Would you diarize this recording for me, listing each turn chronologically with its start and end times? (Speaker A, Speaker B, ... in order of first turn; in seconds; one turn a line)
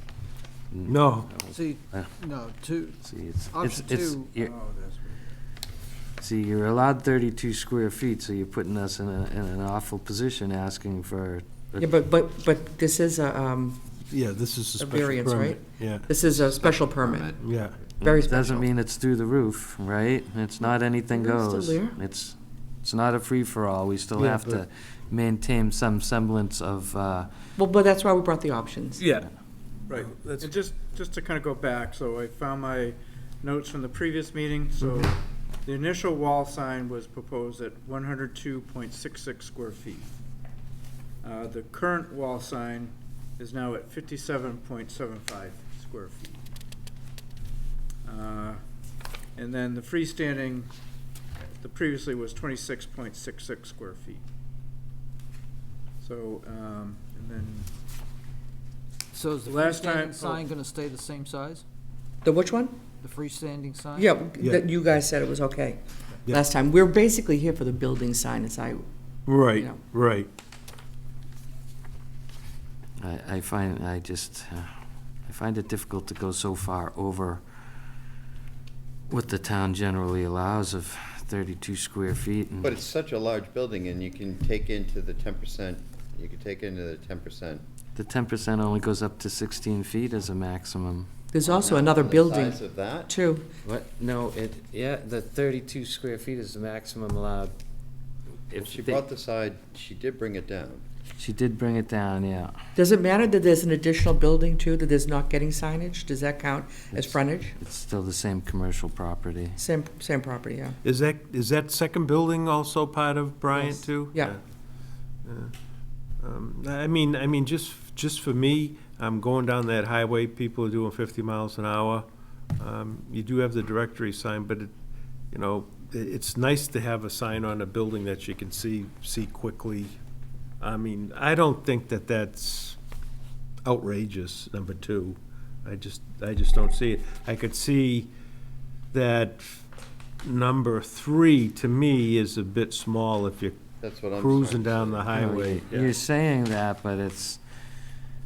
Speaker A: 0.7-2.1
Speaker B: 0.8-1.4
Speaker C: 1.5-4.3
Speaker A: 3.0-4.5
Speaker A: 6.2-11.9
Speaker D: 11.8-13.8
Speaker B: 14.1-16.1
Speaker D: 14.8-17.4
Speaker E: 16.3-17.4
Speaker B: 17.4-17.9
Speaker D: 18.0-18.6
Speaker A: 18.0-27.3
Speaker D: 21.1-22.0
Speaker B: 24.1-24.6
Speaker D: 27.6-29.0
Speaker B: 29.0-29.3
Speaker F: 29.9-35.1
Speaker B: 29.9-30.6
Speaker F: 35.6-40.0
Speaker F: 41.2-46.3
Speaker F: 48.0-48.6
Speaker F: 49.4-50.6
Speaker F: 51.6-54.2
Speaker F: 56.0-57.5
Speaker C: 59.1-61.6
Speaker F: 59.5-60.2
Speaker D: 62.2-62.8
Speaker C: 63.0-64.1
Speaker D: 64.0-68.8
Speaker B: 64.4-64.7
Speaker B: 69.2-70.3
Speaker D: 69.5-69.8
Speaker A: 73.0-74.7
Speaker A: 75.2-77.4
Speaker A: 79.1-82.8
Speaker E: 82.6-87.6
Speaker A: 87.9-91.1
Speaker D: 91.3-93.5
Speaker E: 91.5-93.1
Speaker A: 93.6-97.5
Speaker A: 98.5-99.0
Speaker E: 98.6-100.8
Speaker A: 101.2-102.6
Speaker D: 102.8-107.6
Speaker A: 106.9-109.6
Speaker D: 109.6-110.8
Speaker B: 110.8-114.4
Speaker D: 113.5-114.4
Speaker B: 115.2-115.5
Speaker B: 116.2-122.1
Speaker B: 122.6-124.7
Speaker B: 125.3-129.9
Speaker B: 130.6-132.8
Speaker B: 133.6-138.1
Speaker B: 138.9-139.6
Speaker B: 140.2-143.6
Speaker E: 143.8-145.1
Speaker B: 144.1-145.9
Speaker A: 145.1-147.4